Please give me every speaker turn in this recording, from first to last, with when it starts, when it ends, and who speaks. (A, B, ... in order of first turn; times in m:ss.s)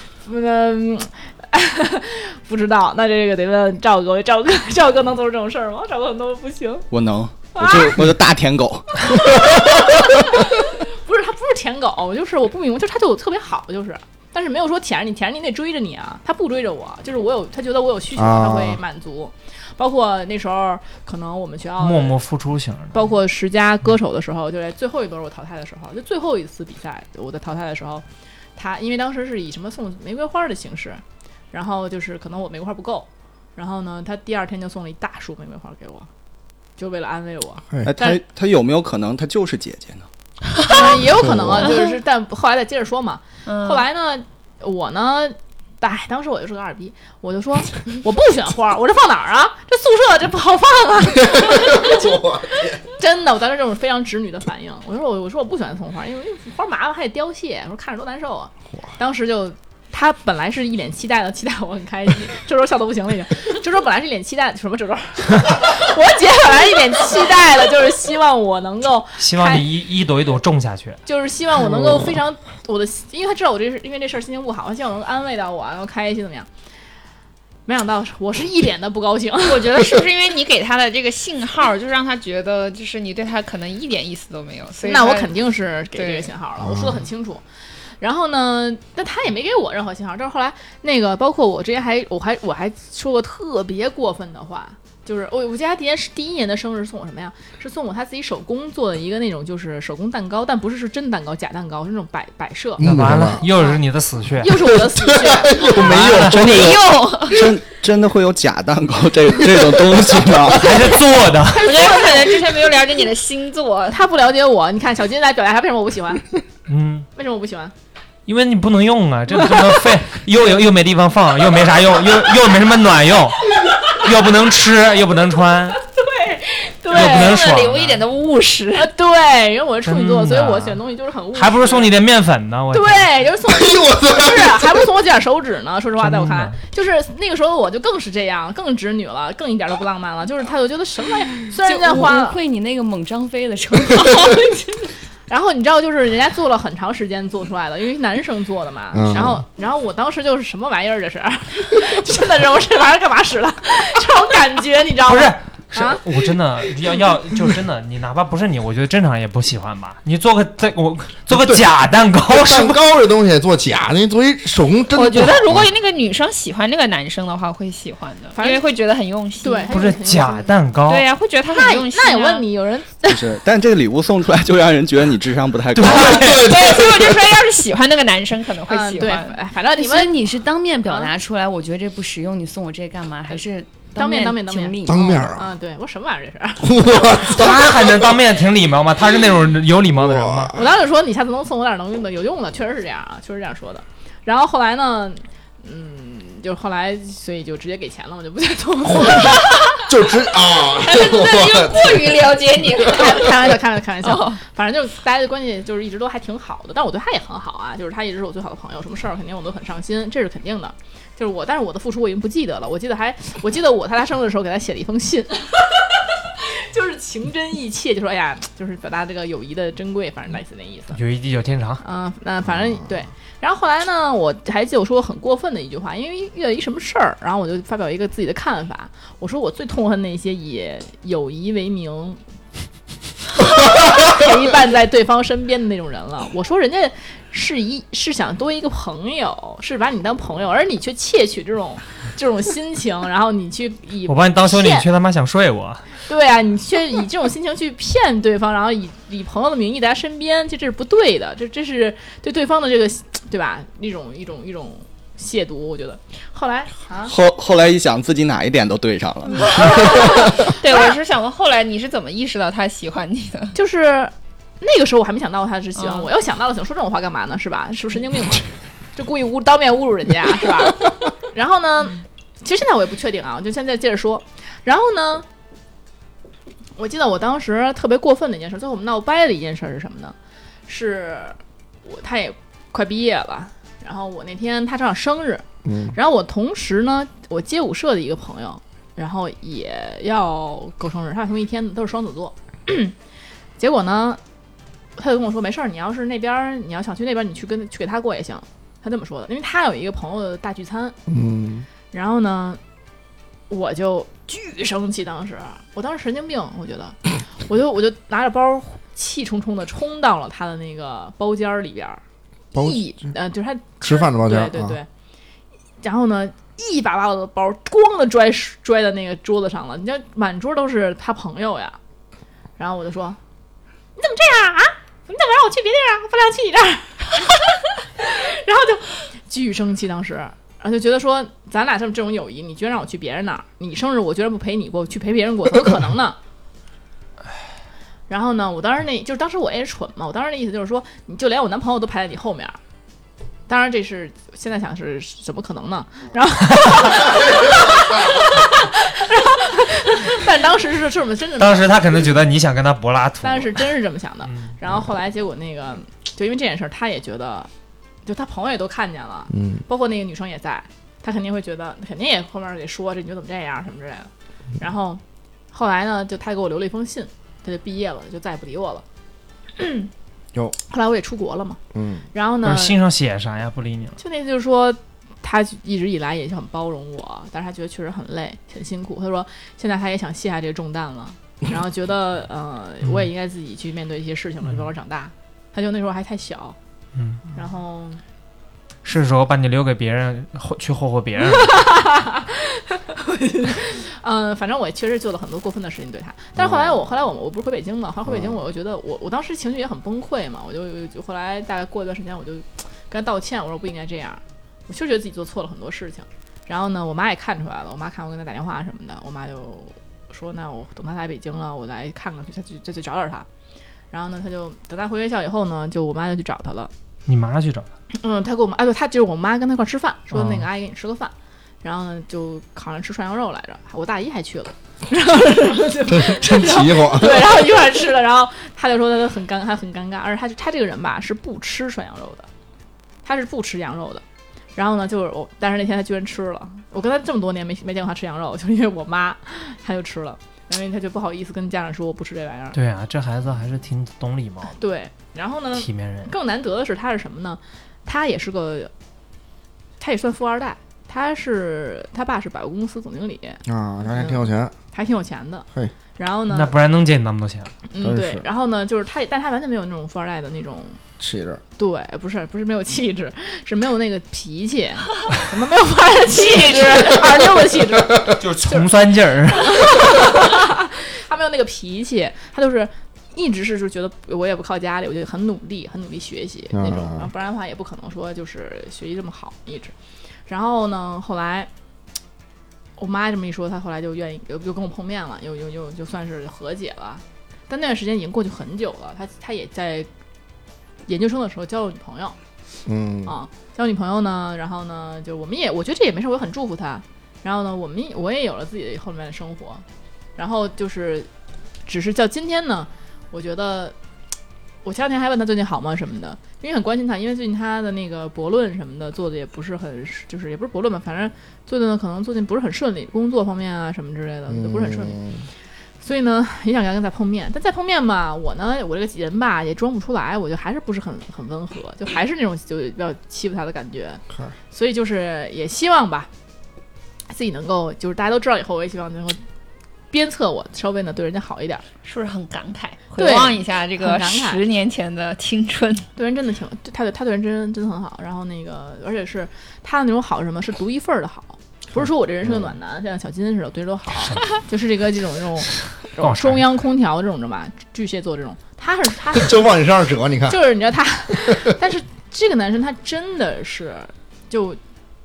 0:00.2-0:06.9 A
0:06.9-0:09.2 B
0:07.5-0:08.0 A
0:09.0-0:22.2 A
0:18.1-0:18.8 C
0:21.8-0:23.0 D
0:22.9-0:28.0 A
0:28.6-0:36.1 A
0:36.8-0:38.2 A
0:37.8-0:40.1 B
0:40.6-0:41.0 E
0:40.6-1:09.6 A
0:41.1-0:41.8 C
0:43.4-0:43.8 E
0:51.1-0:52.8 C
1:09.2-1:11.0 D
1:11.0-1:16.5 A
1:11.7-1:12.1 C
1:17.7-1:20.0 A
1:19.4-1:25.4 E
1:24.8-1:27.4 A
1:25.9-1:26.3 E
1:26.6-1:27.0 C
1:28.0-1:42.8 A
1:42.8-1:43.4 C
1:42.8-1:44.6 D
1:43.4-1:43.8 A
1:44.4-1:45.7 A
1:44.7-1:46.5 C
1:45.8-1:46.6 D
1:46.0-1:50.7 B
1:46.4-1:47.5 E
1:50.5-1:51.8 D
1:51.5-1:54.0 E
1:53.9-1:56.2 A
1:56.7-1:57.1 D
1:57.1-1:57.7 A
1:58.3-2:05.8 D
2:06.0-2:07.4 A
2:06.8-2:08.9 E
2:06.9-2:08.0 D
2:08.7-2:11.9 A
2:09.8-2:10.8 D
2:11.3-2:13.1 D
2:12.7-2:22.4 A
2:13.4-2:14.8 C
2:16.0-2:16.6 D
2:21.6-2:24.4 F
2:25.3-2:36.0 A
2:28.9-2:29.4 C
2:35.0-2:42.8 D
2:41.3-2:41.6 C
2:42.3-2:45.7 C
2:44.9-2:49.8 E
2:48.3-2:48.6 A
2:49.4-2:50.5 A
2:49.7-2:51.0 D
2:50.9-2:52.5 E
2:51.5-2:53.2 A
2:53.1-2:56.4 B
2:55.7-2:56.4 D
2:55.9-2:59.4 E
2:56.1-2:57.1 C
2:58.7-3:00.2 A
2:59.7-3:05.3 F
3:04.0-3:07.2 A
3:04.8-3:05.5 C
3:06.6-3:08.1 C
3:07.2-3:10.5 D
3:10.0-3:10.6 C
3:10.5-3:19.5 A
3:18.8-3:22.8 C
3:19.2-3:19.7 E
3:20.6-3:24.4 E
3:22.9-3:41.0 A
3:40.9-3:41.8 D
3:41.8-3:52.2 A
3:42.5-3:42.8 C
3:53.4-4:04.9 A
4:04.1-4:05.9 D
4:06.1-4:17.1 A
4:17.0-4:20.5 B
4:19.4-4:23.5 E
4:23.5-4:35.2 A
4:25.8-4:26.1 E
4:36.8-4:40.1 A
4:40.7-4:52.9 A
4:45.6-4:46.0 C
4:53.6-4:54.2 A
4:55.0-5:01.0 A
5:01.1-5:01.6 C
5:01.9-5:02.6 A
5:03.5-5:12.0 A
5:12.5-5:13.1 C
5:12.5-5:14.9 A
5:13.8-5:14.8 C
5:15.8-5:21.8 A
5:22.6-5:23.2 A
5:24.0-5:27.2 A
5:28.0-5:36.2 A
5:38.1-5:42.6 A
5:43.5-5:52.1 A
5:51.4-5:53.7 D
5:53.2-5:57.5 A
5:58.0-6:05.0 A
5:59.3-5:59.6 C
6:05.5-6:08.8 A
6:09.6-6:09.9 A
6:10.7-6:11.6 A
6:11.7-6:12.0 C
6:12.1-6:12.8 A
6:12.4-6:14.0 D
6:14.0-6:26.6 A
6:27.0-6:27.2 D
6:27.3-6:28.0 A
6:28.8-6:31.7 D
6:31.3-6:53.3 A
6:36.4-6:36.7 C
6:38.1-6:38.4 C
6:53.9-6:56.7 A
6:57.1-6:57.7 D
6:57.9-7:12.3 A
7:00.1-7:00.4 D
7:05.8-7:07.4 C
7:13.0-7:14.0 A
7:14.6-7:22.6 A
7:22.5-7:24.6 D
7:24.6-7:28.7 A
7:25.5-7:26.1 D
7:29.8-7:36.5 A
7:33.5-7:34.5 C
7:36.3-7:37.5 D
7:37.7-7:40.8 A
7:37.8-7:38.2 C
7:41.0-7:41.4 C
7:41.6-7:48.7 A
7:48.2-7:49.9 D
7:49.3-7:59.7 A
7:56.5-7:57.1 C
8:00.3-8:01.5 A
8:02.8-8:09.9 A
8:10.9-8:12.2 A
8:12.6-8:13.1 C
8:13.0-8:19.6 A
8:20.2-8:21.1 A
8:21.6-8:23.7 A
8:24.6-8:35.0 A
8:34.3-8:35.2 C
8:35.8-8:46.1 A
8:47.1-8:49.2 A
8:49.9-8:51.6 A
8:51.8-8:55.9 E
8:53.0-8:54.4 A
8:56.0-9:09.4 A
9:02.2-9:02.5 C
9:06.0-9:06.4 D
9:09.1-9:10.4 C
9:10.3-9:14.6 A
9:11.1-9:11.5 C